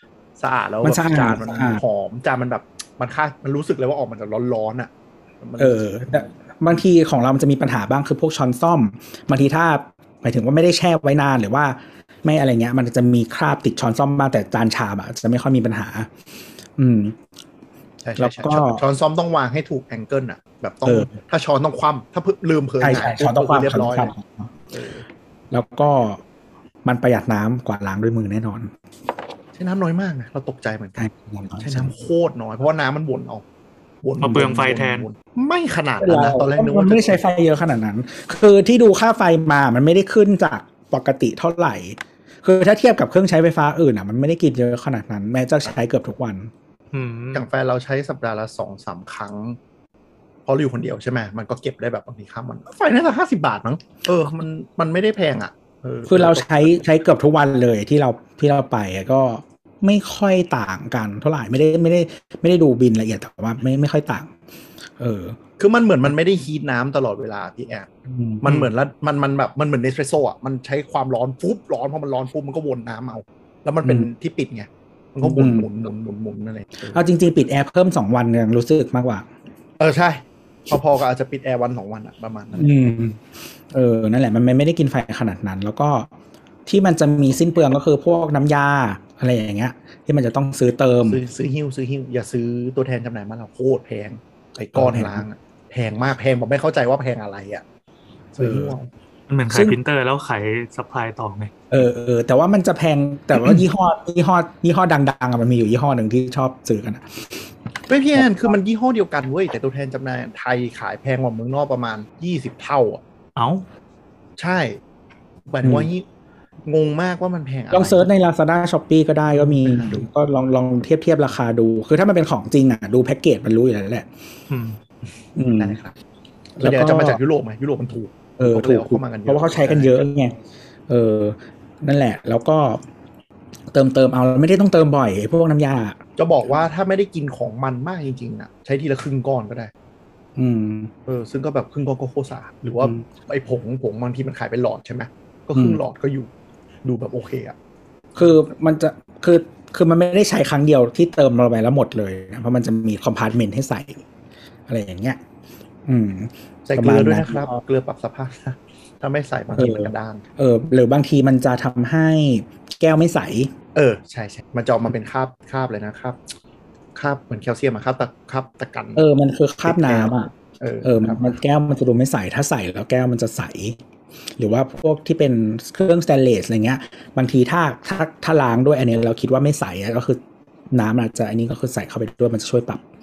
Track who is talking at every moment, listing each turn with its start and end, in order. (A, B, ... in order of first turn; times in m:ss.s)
0:00.4-0:06.3 A
0:00.8-0:01.8 B
0:05.6-0:16.1 B
0:16.8-0:17.2 B
0:18.0-0:24.1 A
0:18.2-0:18.8 B
0:20.8-0:21.1 B
0:22.8-0:24.5 B
0:24.7-0:25.1 A
0:25.5-0:26.2 B
0:26.8-0:28.7 B
0:29.6-0:33.4 A
0:31.0-0:31.9 B
0:34.0-0:37.2 A
0:34.2-0:35.1 C
0:36.0-0:46.5 B
0:46.9-0:47.4 C
0:47.3-0:49.6 A
0:50.5-0:56.8 A
0:56.1-1:04.3 B
1:05.0-1:05.4 B
1:05.6-1:07.9 A
1:08.1-1:08.7 B
1:08.4-1:17.0 A
1:15.2-1:15.7 B
1:16.9-1:19.3 B
1:19.8-1:22.9 A
1:22.6-1:26.1 B
1:26.6-1:31.2 B
1:31.1-1:37.6 A
1:34.8-1:35.2 B
1:38.4-1:38.9 A
1:38.4-1:38.8 B
1:39.3-1:41.5 C
1:39.5-1:39.8 B
1:41.7-1:47.5 B
1:47.9-1:53.0 A
1:48.2-1:48.5 B
1:53.4-1:53.6 C
1:54.4-1:54.8 A
1:55.5-1:56.1 A
1:55.6-1:55.9 B
1:56.6-1:58.1 A
1:57.7-2:04.1 B
1:59.4-2:00.1 A
2:05.4-2:05.8 B
2:05.5-2:06.0 A
2:06.6-2:07.2 B
2:06.6-2:10.0 A
2:08.4-2:10.4 B
2:10.9-2:12.8 B
2:13.7-2:16.0 B
2:16.2-2:19.7 A
2:20.4-2:20.9 B
2:21.1-2:26.3 A
2:25.5-2:25.8 B
2:26.8-2:27.6 A
2:28.2-2:34.0 B
2:34.7-2:35.2 B
2:35.9-2:37.5 B
2:36.6-2:40.2 A
2:39.5-2:43.5 B
2:43.8-2:46.2 A
2:47.0-2:49.1 A
2:49.0-2:50.3 B
2:49.6-2:51.3 A
2:50.8-2:53.8 B
2:54.4-3:00.2 B
3:00.7-3:02.8 B